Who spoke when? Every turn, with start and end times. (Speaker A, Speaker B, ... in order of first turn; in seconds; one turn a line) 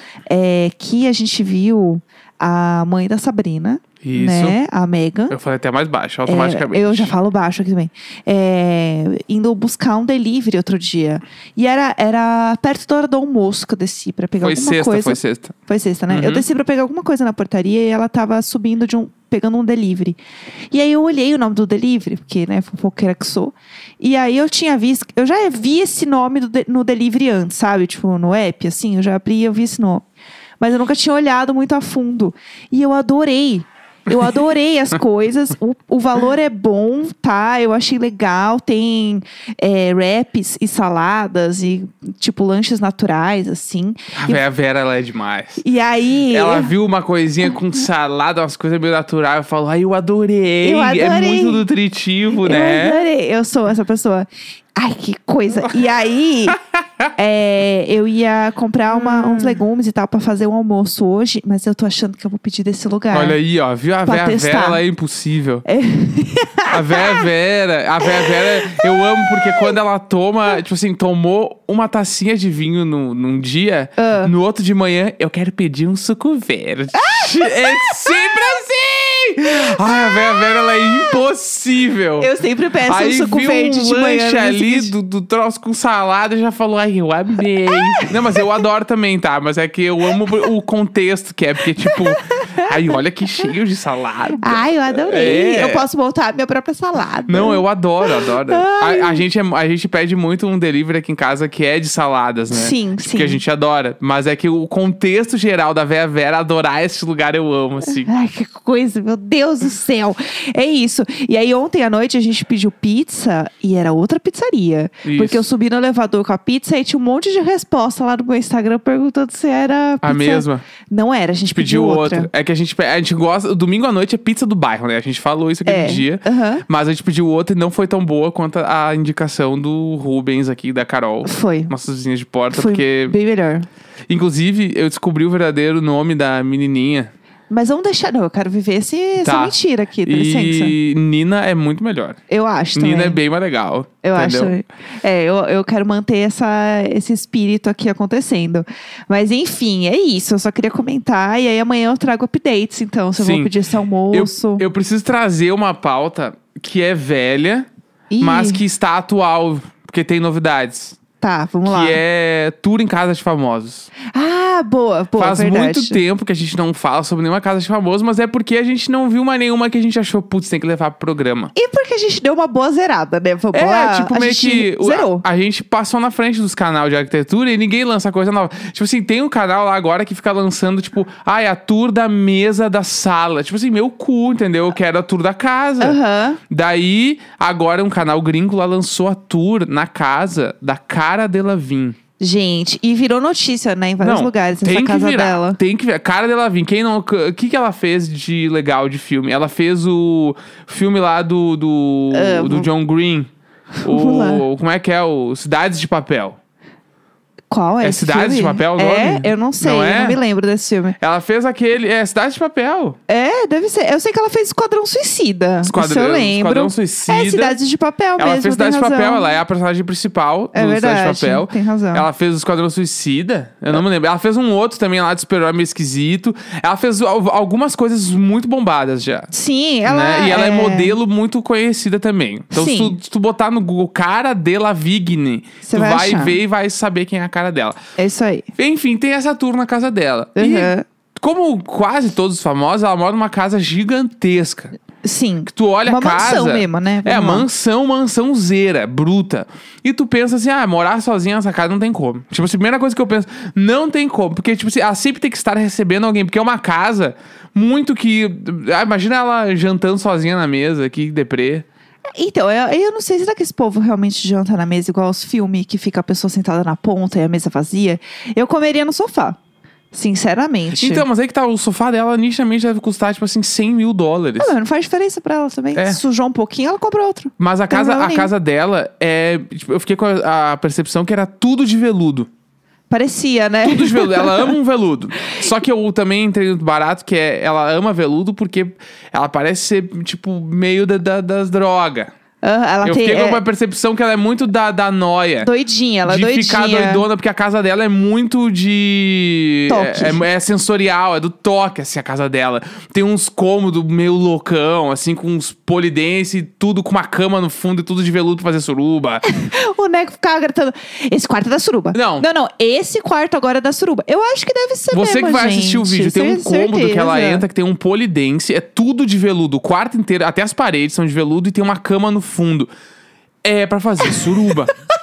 Speaker A: 0.3-5.3
Speaker B: 4.0-4.6
Speaker B: 5.3-7.1
Speaker A: 6.3-20.2
Speaker B: 14.4-15.5
Speaker B: 16.1-16.5
Speaker A: 20.7-30.1
Speaker A: 30.6-44.4
Speaker B: 44.1-45.6
Speaker A: 45.6-46.7
Speaker B: 46.3-53.1
Speaker A: 50.6-51.6
Speaker A: 52.4-56.6
Speaker A: 57.2-63.4
Speaker B: 58.9-59.6
Speaker B: 63.1-65.6
Speaker A: 64.0-64.8
Speaker A: 65.7-67.2
Speaker B: 66.7-82.3
Speaker A: 68.1-69.7
Speaker A: 74.0-74.3
Speaker A: 77.0-78.4
Speaker A: 79.8-81.2
Speaker A: 82.2-84.9
Speaker B: 82.9-95.8
Speaker A: 88.0-88.4
Speaker A: 91.8-92.7
Speaker A: 94.4-99.2
Speaker B: 97.3-108.1
Speaker A: 102.5-103.4
Speaker A: 107.9-122.3
Speaker B: 115.0-115.4
Speaker B: 120.0-120.7
Speaker B: 121.6-133.2
Speaker A: 125.7-126.7
Speaker A: 131.2-131.7
Speaker A: 132.5-133.7
Speaker B: 134.1-137.1
Speaker A: 137.5-140.8
Speaker B: 139.2-139.6
Speaker B: 140.1-142.2
Speaker A: 142.3-143.2
Speaker B: 142.8-144.5
Speaker A: 144.0-154.6
Speaker B: 153.2-153.5
Speaker B: 154.1-157.7
Speaker A: 158.1-158.6
Speaker B: 158.2-161.0
Speaker A: 161.2-162.0
Speaker B: 161.7-163.9
Speaker A: 164.1-166.0
Speaker B: 165.2-171.5
Speaker A: 171.6-175.2
Speaker B: 173.5-186.0
Speaker A: 185.8-186.4
Speaker B: 186.5-192.0
Speaker A: 192.2-195.6
Speaker B: 194.0-203.3
Speaker A: 202.1-202.7
Speaker A: 203.8-204.4
Speaker B: 203.8-206.4
Speaker A: 207.5-211.0
Speaker B: 207.8-210.2
Speaker B: 211.0-213.0
Speaker A: 213.1-219.4
Speaker B: 215.6-217.6
Speaker B: 218.2-229.3
Speaker A: 220.5-222.1
Speaker A: 229.3-230.9
Speaker B: 229.9-237.8
Speaker A: 232.5-233.0
Speaker A: 235.6-236.4
Speaker A: 238.0-238.5
Speaker B: 238.6-244.7
Speaker A: 240.4-240.8
Speaker A: 245.0-247.4
Speaker B: 245.5-261.7
Speaker A: 262.2-269.4
Speaker A: 269.9-271.1
Speaker B: 270.7-274.6
Speaker A: 274.4-278.3
Speaker B: 275.8-276.0
Speaker B: 277.4-282.3
Speaker A: 282.9-284.6
Speaker B: 283.6-292.1
Speaker A: 292.4-293.4
Speaker B: 292.8-295.5
Speaker A: 295.4-297.1
Speaker B: 296.1-309.2
Speaker A: 299.7-300.2
Speaker A: 309.2-317.4
Speaker B: 311.9-312.3
Speaker B: 314.9-322.7
Speaker B: 323.4-324.7
Speaker A: 324.1-324.5